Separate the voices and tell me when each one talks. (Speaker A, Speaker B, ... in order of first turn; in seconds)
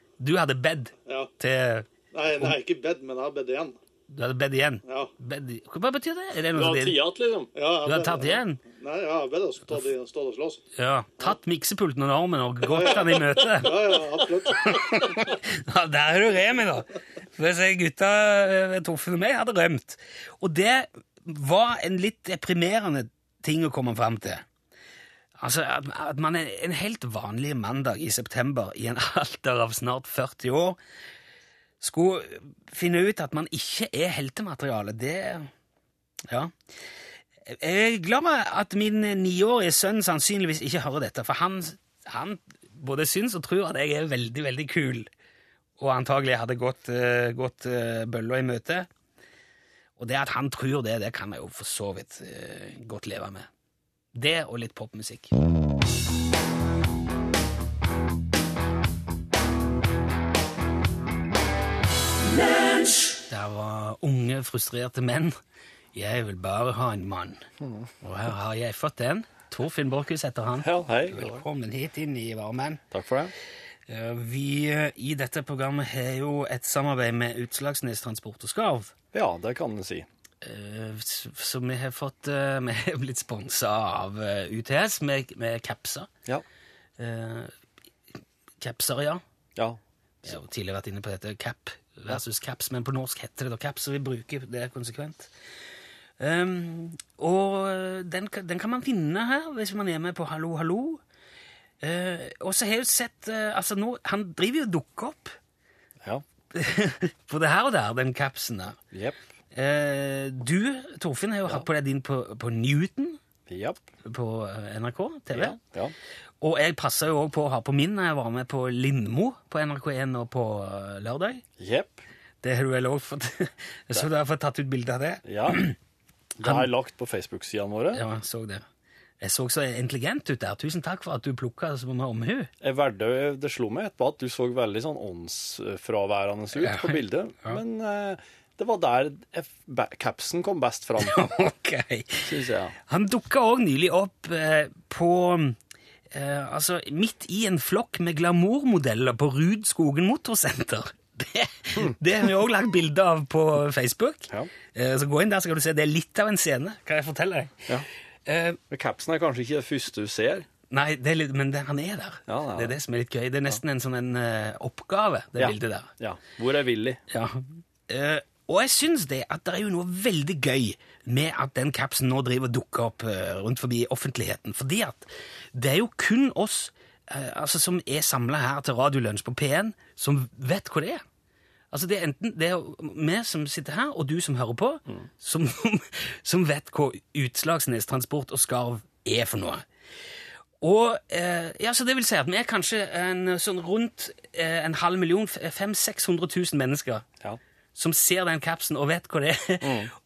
Speaker A: 0.2-2.6, 4.1-7.0, 7.8-8.6, 10.8-24.4, 25.4-30.8, 31.8-35.5, 37.5-45.1, 45.8-48.9, 50.0-53.5, 54.1-55.3, 63.3-65.3, 65.9-67.5, 68.0-72.8, 73.9-78.9, 80.4-86.1, 87.0-87.5, 88.6-89.2, 90.2-95.3, 96.2-101.0, 101.8-105.3, 106.5-108.8, 109.5-113.2, 114.0-115.6, 116.4-121.4, 122.4-125.8, 126.4-126.7, 127.9-128.6, 129.2-132.5, 136.6-137.6, 141.0-142.3, 142.8-145.6, 146.1-157.7, 158.3-158.6, 160.7-165.9, 167.1-181.0, 181.7-189.6, 190.6-197.1, 197.8-199.9
Speaker B: 1.1-1.3, 2.1-3.8, 6.5-10.6, 12.7-15.3
Speaker C: 67.6-67.9, 70.6-71.4, 72.9-73.3, 79.1-80.1, 113.5-113.8, 115.3-115.9, 121.6-122.0, 125.2-125.7, 126.4-128.0, 132.6-141.2, 142.2-142.8, 158.7-160.5, 162.3-162.8, 165.4-167.0, 199.6-199.9